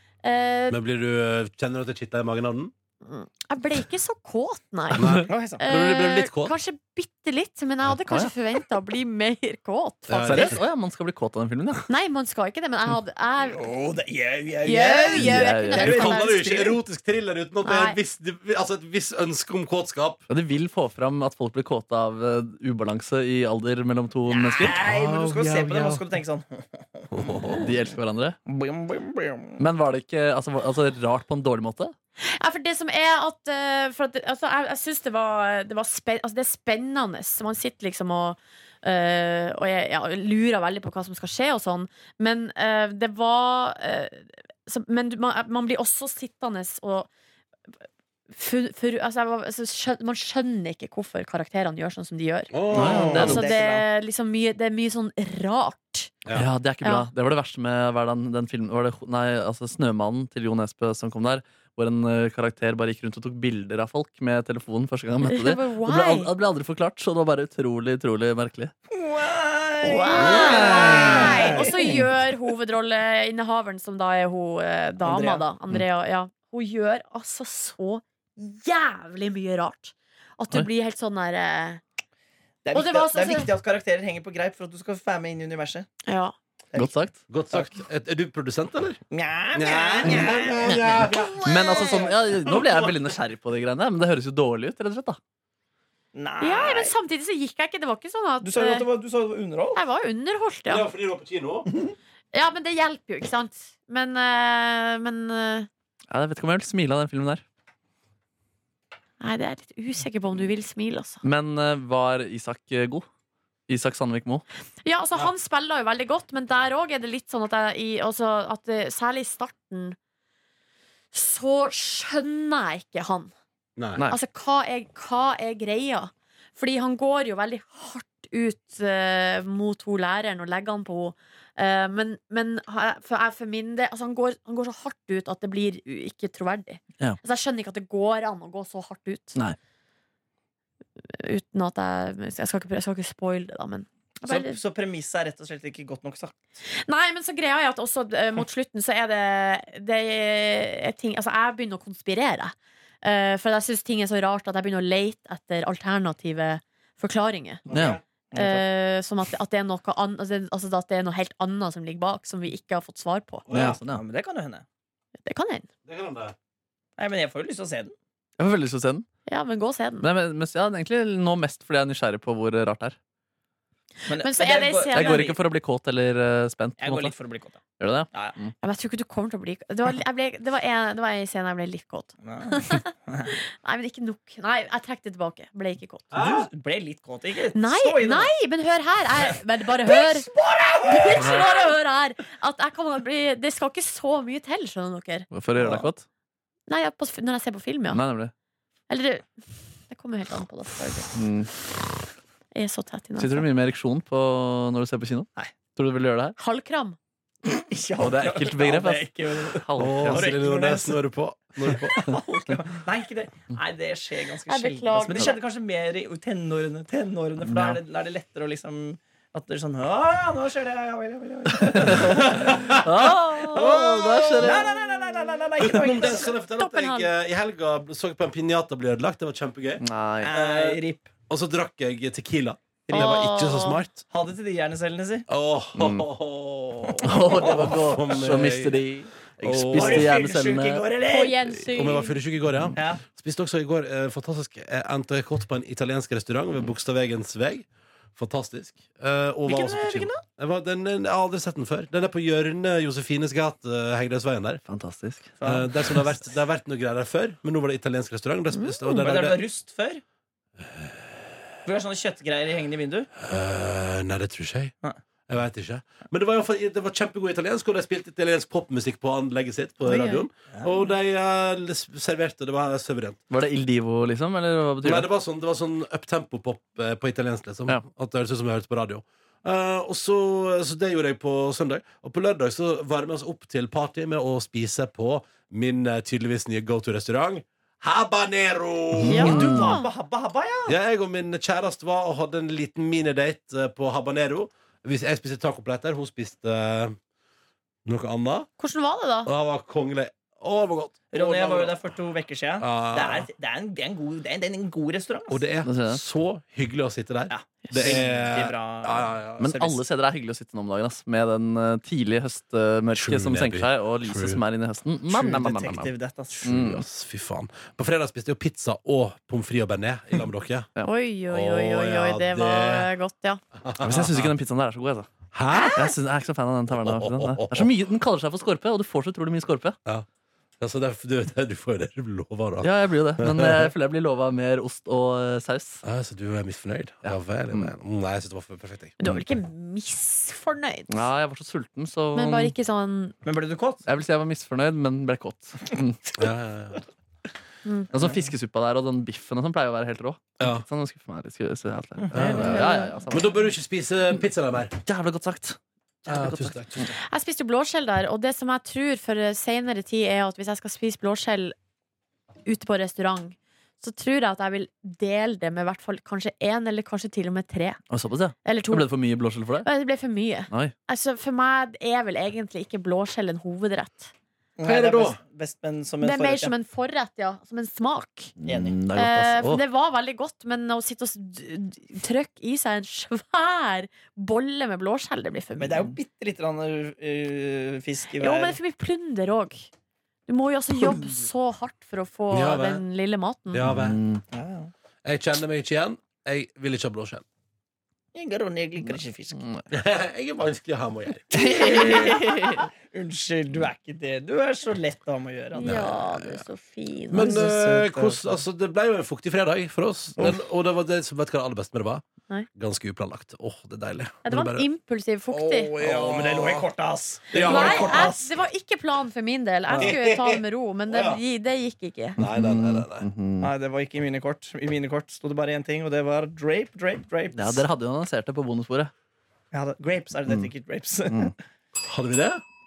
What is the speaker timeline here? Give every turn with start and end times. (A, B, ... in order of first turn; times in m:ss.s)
0:00.2-0:00.8 A
0:00.7-0:02.7 B
0:03.0-0:10.6 A
0:04.9-0:06.6 B
0:05.2-0:05.6 C
0:10.1-0:10.6 B
0:10.2-0:11.9 D
0:11.9-0:13.6 A
0:13.4-0:16.8 C
0:14.6-0:16.4 A
0:15.1-0:20.2 B
0:15.2-0:15.9 D
0:17.6-0:18.0 A
0:20.3-0:26.0 D
0:24.3-0:27.7 C
0:24.8-0:26.0 B
0:27.1-0:27.7 B
0:27.6-0:28.4 D
0:28.5-0:29.6 C
0:29.6-0:31.9 D
0:32.2-0:47.1 A
0:48.3-0:56.1 A
0:52.5-0:53.4 B
0:52.7-0:53.9 C
0:52.7-0:53.5 D
0:56.3-1:08.7 D
1:05.3-1:06.3 A
1:08.9-1:12.1 C
1:09.8-1:21.8 A
1:10.2-1:11.4 B
1:10.7-1:11.2 D
1:15.0-1:15.4 C
1:22.6-1:25.9 C
1:22.7-1:23.5 A
1:26.1-1:26.4 A
1:26.8-1:27.2 D
1:27.3-1:29.0 B
1:29.1-1:32.5 C
1:29.5-1:31.4 B
1:30.0-1:30.8 D
1:31.4-1:35.2 D
1:31.7-1:32.0 A
1:32.5-1:32.9 B
1:36.1-1:36.9 C
1:36.4-1:38.9 A
1:38.4-1:39.8 C
1:39.8-1:40.9 A
1:40.7-1:41.7 B
1:41.7-1:42.0 C
1:42.3-1:45.7 A
1:46.1-1:47.4 D
1:49.2-1:51.2 A
1:51.2-1:53.0 D
1:53.7-1:54.4 D
1:54.8-2:00.0 A
2:01.1-2:03.3 A
2:03.8-2:04.0 B
2:04.1-2:19.4 A
2:21.0-2:24.6 A
2:24.3-2:26.4 C
2:26.7-2:37.6 A
2:37.7-2:38.6 C
2:37.7-2:38.0 D
2:38.4-2:43.5 A
2:43.5-2:43.8 B
2:43.5-2:44.0 D
2:43.5-2:44.6 C
2:45.2-2:45.7 A
2:45.8-2:46.4 B
2:47.0-2:47.9 C
2:48.4-2:49.1 D
2:49.3-2:50.1 A
2:50.0-2:53.0 D
2:54.1-2:55.4 C
2:54.1-2:55.2 A
2:54.9-2:57.1 D
2:56.8-2:57.6 C
2:57.8-2:58.5 D
2:58.6-3:06.1 A
3:02.2-3:03.4 C
3:06.1-3:06.5 B
3:06.1-3:08.3 C
3:07.5-3:10.3 A
3:09.8-3:11.7 C
3:10.9-3:15.3 A
3:15.3-3:16.0 D
3:15.6-3:15.9 C
3:16.7-3:18.0 A
3:17.9-3:18.3 D
3:18.9-3:19.3 A
3:19.9-3:21.1 A
3:21.2-3:21.5 D
3:22.5-3:23.5 A
3:23.2-3:26.4 D
3:26.4-3:27.0 A
3:27.4-3:31.0 C
3:28.0-3:30.3 D
3:29.8-3:32.1 B
3:31.6-3:46.3 C
3:34.5-3:35.4 A
3:37.4-3:37.8 D
3:41.5-3:44.8 D
3:41.9-3:42.9 B
3:43.5-3:44.5 B
3:45.6-3:54.0 B
3:46.1-3:47.1 A
3:49.8-3:50.4 D
3:50.2-3:51.1 C
3:52.9-3:53.2 C
3:52.9-3:53.8 A
3:54.1-3:55.3 C
3:55.3-3:58.8 B
3:55.8-3:56.1 D
3:56.9-3:57.8 C
3:57.0-4:00.8 D
3:59.4-4:00.2 B
3:59.8-4:01.5 C
4:01.0-4:02.2 A
4:01.7-4:14.6 B
4:02.8-4:03.0 C
4:09.5-4:10.2 C
4:14.7-4:15.4 D
4:15.4-4:15.7 C
4:15.4-4:19.5 B
4:18.5-4:19.0 A
4:19.0-4:20.0 C
4:20.6-4:20.9 B
4:21.6-4:23.1 C
4:23.2-4:24.7 B
4:25.3-4:33.2 B
4:29.9-4:30.3 A
4:30.5-4:30.8 C
4:33.3-4:35.1 D
4:34.8-4:49.6 B
4:49.0-4:49.8 D
4:49.1-4:49.9 A
4:49.1-4:50.8 C
4:50.7-4:57.0 B
4:57.8-4:58.5 B
4:58.6-4:59.3 A
4:59.3-5:01.8 B
5:01.1-5:05.4 C
5:02.6-5:03.3 B
5:05.3-5:09.5 B
5:05.6-5:06.0 D
5:07.3-5:09.8 C
5:09.4-5:15.9 D
5:13.0-5:14.4 B
5:15.1-5:16.4 C
5:16.4-5:20.7 B
5:16.4-5:16.8 D
5:20.8-5:23.4 A
5:21.3-5:22.9 B
5:23.6-5:24.3 B
5:23.8-5:25.1 D
5:25.3-5:25.9 B
5:25.5-5:25.8 A
5:25.7-5:29.8 D
5:26.7-5:27.7 B
5:30.6-5:33.7 B
5:32.6-5:35.8 D
5:35.8-5:39.0 B
5:37.0-5:37.7 D
5:39.0-5:41.0 A
5:40.9-5:42.5 D
5:42.2-5:43.2 A
5:43.2-5:43.8 C
5:43.9-5:46.0 D
5:46.2-5:46.8 B
5:47.6-5:47.9 A
5:47.9-5:53.3 D
5:50.4-5:50.6 B
5:52.0-5:52.4 C
5:52.1-5:54.7 B
5:52.3-5:53.0 A
5:54.8-5:56.9 D
5:56.1-5:56.9 B
5:57.0-6:01.6 A
6:02.5-6:07.8 A
6:07.9-6:09.7 D
6:08.4-6:08.9 A
6:09.6-6:14.1 A
6:14.6-6:16.5 C
6:14.6-6:15.2 B
6:16.0-6:18.4 A
6:18.4-6:19.6 D
6:18.5-6:18.8 C
6:18.9-6:25.9 A
6:25.6-6:28.6 C
6:28.2-6:29.7 A
6:30.3-6:33.6 A
6:32.3-6:32.8 B
6:33.5-6:34.0 B
6:33.6-6:34.2 D
6:34.3-6:34.7 C
6:35.0-6:37.2 B
6:38.1-6:39.4 C
6:38.9-6:39.6 D
6:39.7-6:41.8 B
6:41.3-6:45.9 C
6:41.3-6:42.6 A
6:45.6-6:47.5 A
6:45.6-6:46.4 B
6:47.1-6:52.0 B
6:47.2-6:48.3 C
6:52.6-6:54.7 B
6:54.2-6:55.7 A
6:55.3-6:56.7 B
6:55.5-6:58.3 C
6:57.3-6:58.1 B
6:57.4-7:02.2 A
6:59.8-7:01.2 B
7:02.2-7:03.1 B
7:02.2-7:03.5 D
7:03.4-7:07.6 C
7:07.3-7:08.9 D
7:09.5-7:11.4 C
7:11.8-7:12.4 B